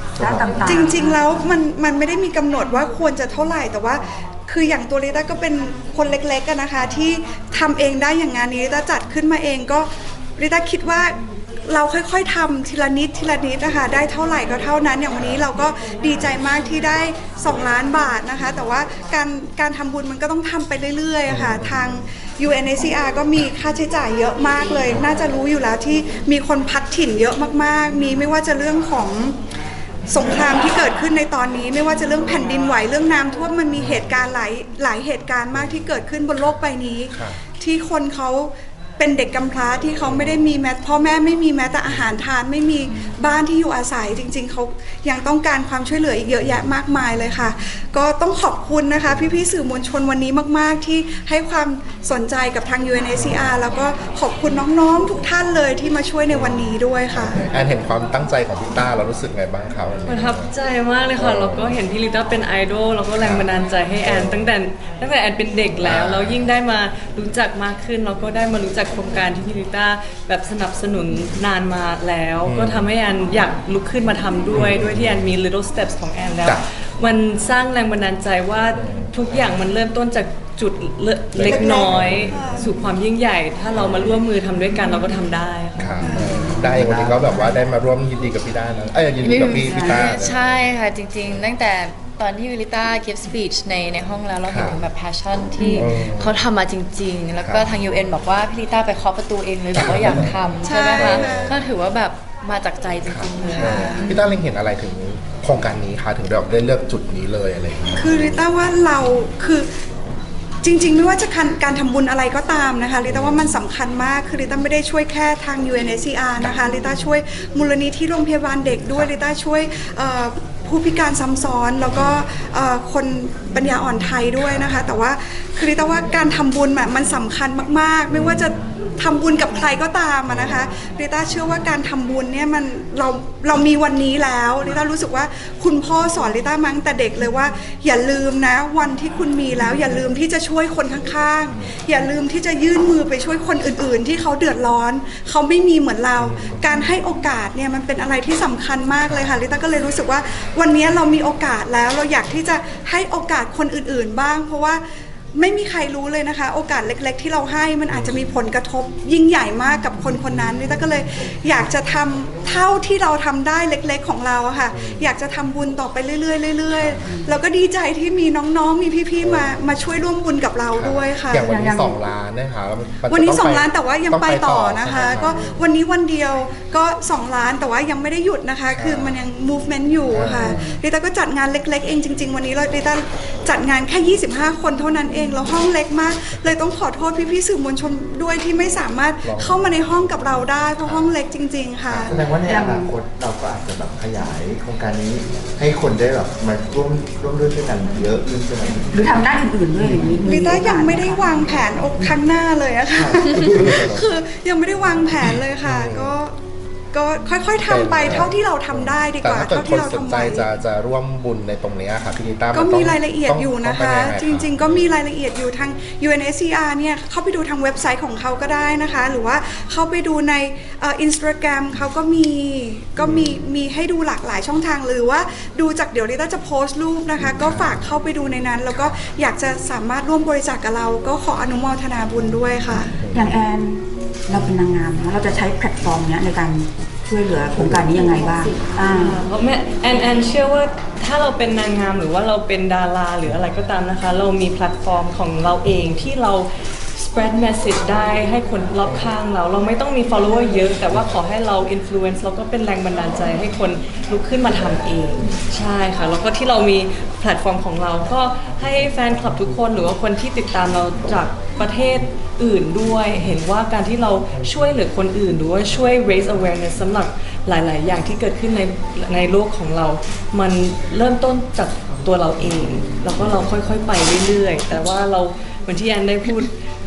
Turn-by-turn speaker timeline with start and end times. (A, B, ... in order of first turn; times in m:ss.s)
0:00.2-0:00.8 A
0:00.2-0:01.2 B
0:00.6-0:29.4 C
0:21.3-0:21.9 D
0:30.1-0:57.4 C
0:33.8-0:34.1 D
0:35.5-0:36.0 D
0:37.1-0:37.4 D
0:46.5-0:46.7 D
0:49.0-0:49.4 D
0:53.2-0:53.5 D
0:56.3-1:00.5 D
1:00.1-1:26.1 E
1:01.2-1:01.8 D
1:03.2-1:03.5 D
1:04.0-1:04.5 D
1:05.8-1:06.5 D
1:12.4-1:12.9 D
1:14.5-1:15.3 D
1:18.8-1:19.4 D
1:21.3-1:22.4 D
1:21.5-1:22.7 C
1:23.7-1:24.2 D
1:25.8-1:30.4 D
1:26.1-1:26.6 B
1:26.7-1:27.3 A
1:29.2-1:44.0 F
1:29.6-1:30.1 B
1:34.5-1:34.8 D
1:35.8-1:36.4 D
1:37.4-1:37.8 D
1:39.8-1:41.6 D
1:40.6-1:41.6 C
1:43.1-1:48.4 D
1:43.5-1:43.8 E
1:43.5-1:44.1 C
1:48.0-1:49.7 C
1:50.6-2:34.8 C
1:53.1-1:53.5 D
2:04.4-2:04.8 D
2:08.1-2:08.5 D
2:10.3-2:10.7 D
2:26.2-2:26.8 D
2:29.0-2:29.4 D
2:35.3-2:51.5 C
2:37.9-2:38.3 D
2:44.7-2:45.1 D
2:46.7-2:47.0 D
2:49.2-2:49.6 D
2:50.7-2:55.6 D
2:51.4-2:52.0 B
2:53.1-3:12.2 C
2:58.7-2:59.2 D
3:00.1-3:00.8 D
3:00.3-3:00.7 B
3:09.2-3:09.7 D
3:10.8-3:11.2 D
3:11.9-3:12.3 D
3:12.1-3:19.2 A
3:12.4-3:12.9 B
3:19.0-3:21.5 B
3:20.2-3:26.4 C
3:22.9-3:23.4 A
3:23.3-3:24.1 D
3:25.6-3:26.2 D
3:26.9-3:30.5 C
3:27.6-3:34.9 D
3:32.5-3:53.0 C
3:43.0-3:43.4 D
3:47.2-3:47.8 D
3:52.9-3:53.4 D
3:53.1-3:59.2 B
3:58.8-4:36.5 E